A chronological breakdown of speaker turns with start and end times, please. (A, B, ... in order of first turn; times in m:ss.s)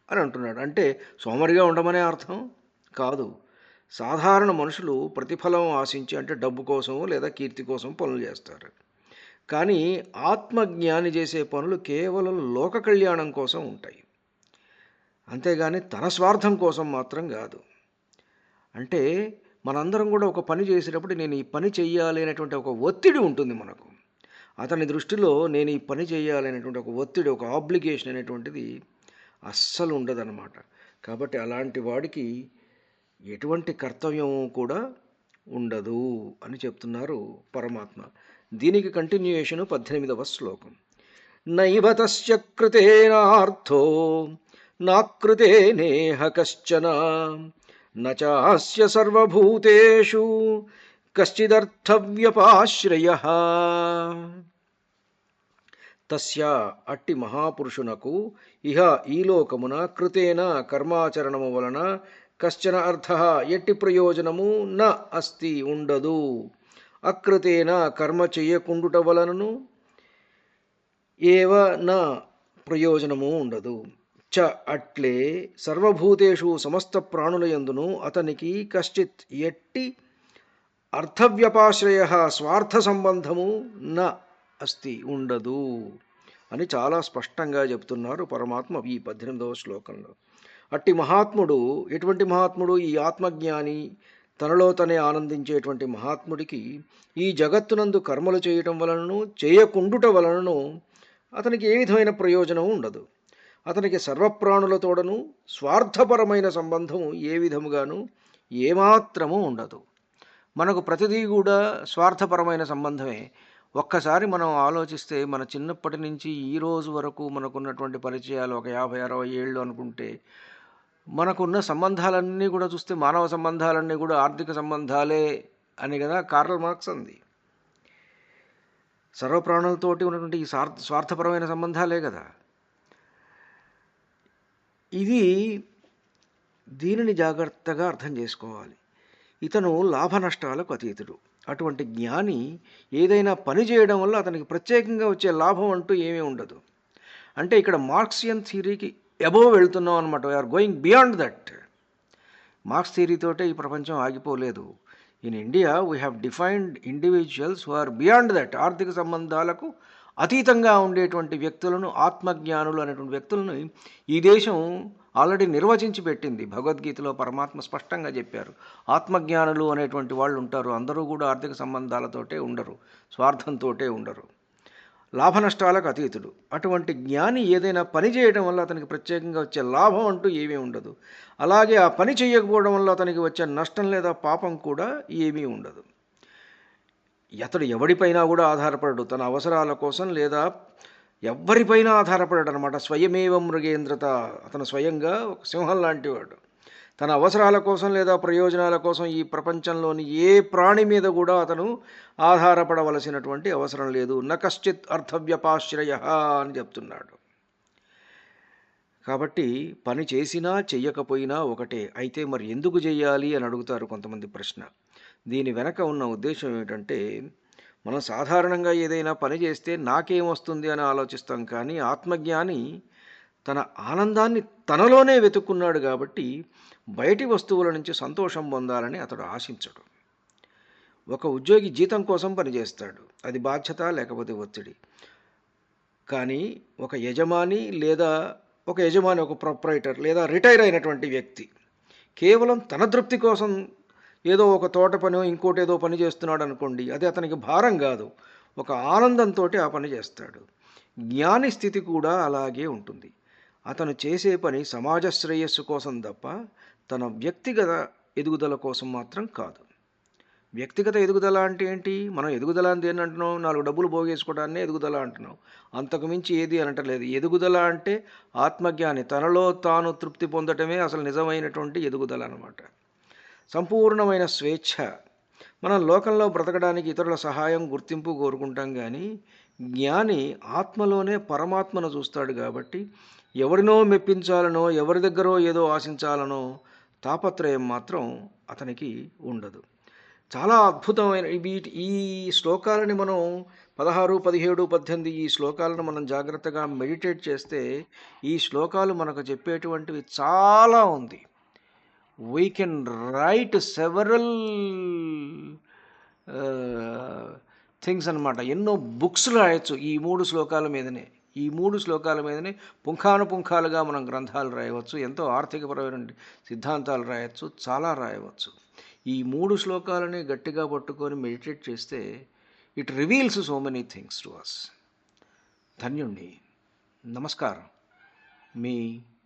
0:00.1-0:02.4 A
0:03.0-0:03.3 A
0:04.0-0:08.7 A
0:09.5-0:14.0 A
0:15.3-0:17.6 A
0:19.7-0:23.9 A
0:24.6-0:28.6 A
0:29.5-0:32.3 A
0:33.3-0:34.8 A
0:35.6-0:38.1 A
0:38.6-0:40.8 A
0:41.6-0:44.3 A
0:44.8-0:47.4 A
0:48.0-0:50.3 A
0:51.2-0:54.3 A
0:56.1-1:01.8 A
1:02.4-1:06.2 A
1:07.1-1:09.5 A
1:11.3-1:12.0 A
1:12.7-1:13.8 A
1:14.3-1:19.8 A
1:21.0-1:24.1 A
1:24.6-1:25.6 A
1:26.5-1:30.1 A
1:30.7-1:33.8 A
1:34.4-1:36.6 A
1:37.2-1:40.6 A
1:41.4-1:43.0 A
1:43.7-1:48.0 A
1:48.6-1:49.8 A
1:50.6-1:53.2 A
1:53.8-2:00.1 A
2:01.2-2:05.2 A
2:05.8-2:07.2 A
2:09.2-2:12.2 A
2:15.0-2:15.2 A
2:16.8-2:18.8 A
2:19.4-2:22.4 A
2:23.0-2:26.6 A
2:27.4-2:31.6 A
2:32.7-2:34.6 A
2:35.2-2:39.7 A
2:40.2-2:44.6 A
2:45.2-2:54.3 A
2:55.2-3:05.8 A
3:07.4-3:10.4 A
3:11.3-3:16.4 A
3:17.0-3:21.7 A
3:22.2-3:27.2 A
3:29.1-3:34.7 A
3:35.3-3:37.0 A
3:37.8-3:42.6 A
3:43.5-3:46.3 A
3:47.0-3:49.8 A
3:51.1-3:54.8 A
3:56.1-3:58.1 A
3:58.7-4:01.5 A
4:02.2-4:03.5 A
4:04.3-4:10.4 A
4:11.1-4:13.1 A
4:13.7-4:16.3 A
4:16.9-4:19.6 A
4:20.6-4:32.7 A
4:33.5-4:34.8 A
4:35.6-4:39.0 A
4:39.8-4:42.8 A
4:43.4-4:46.4 A
4:47.0-4:49.6 A
4:50.4-4:53.2 A
4:53.8-4:57.6 A
4:58.3-5:01.2 A
5:02.3-5:05.5 A
5:06.3-5:18.5 A
5:19.1-5:22.0 A
5:22.8-5:24.7 A
5:25.8-5:26.4 A
5:27.1-5:27.7 A